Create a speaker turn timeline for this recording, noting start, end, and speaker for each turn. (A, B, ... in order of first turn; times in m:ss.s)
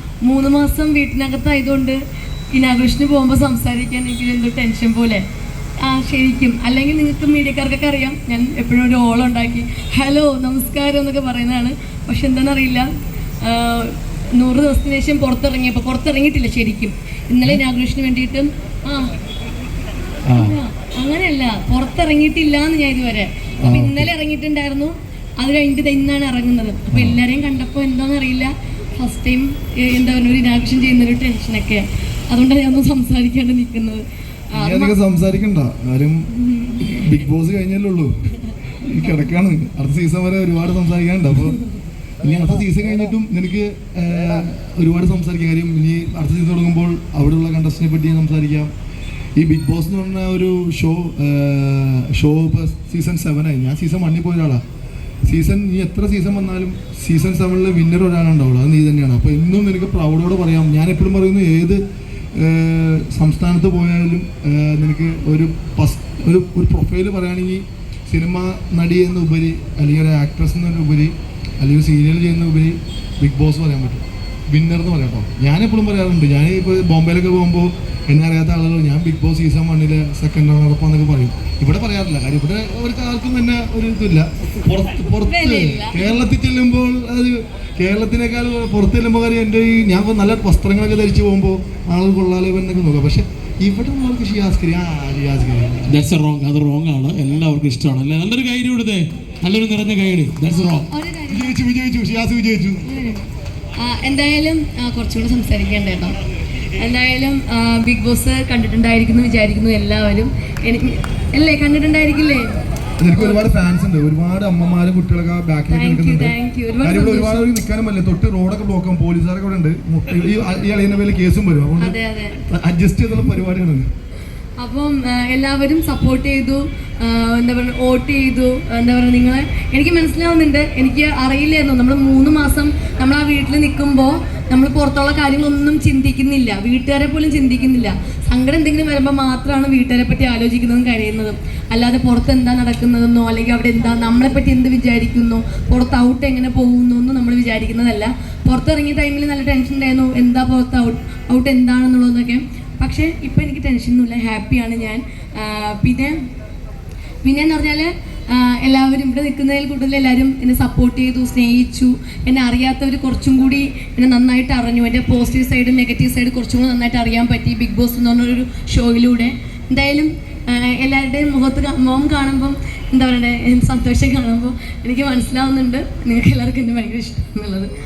0:00.2-0:02.0 A
0:02.5-0:05.2 A
0:05.8-0:12.9 A
0:13.4-0:19.1 A
0:20.3-0:20.6 B
0:20.4-0:34.9 A
0:23.6-0:24.1 B
0:26.9-0:27.2 B
0:34.6-0:38.1 B
0:36.3-0:37.0 A
0:38.8-0:41.6 B
0:42.2-0:48.7 B
0:49.4-0:54.6 B
0:55.2-1:01.8 B
1:02.3-1:35.9 B
1:25.2-1:26.2 A
1:35.9-1:40.9 C
1:40.6-1:41.6 A
1:41.3-1:42.8 B
1:42.9-1:43.2 A
1:43.8-1:46.2 A
1:46.8-1:52.5 A
1:53.0-2:03.9 B
1:53.2-1:53.4 A
1:55.7-1:57.5 A
2:01.8-2:02.4 A
2:04.6-2:36.2 A
2:37.2-2:57.7 A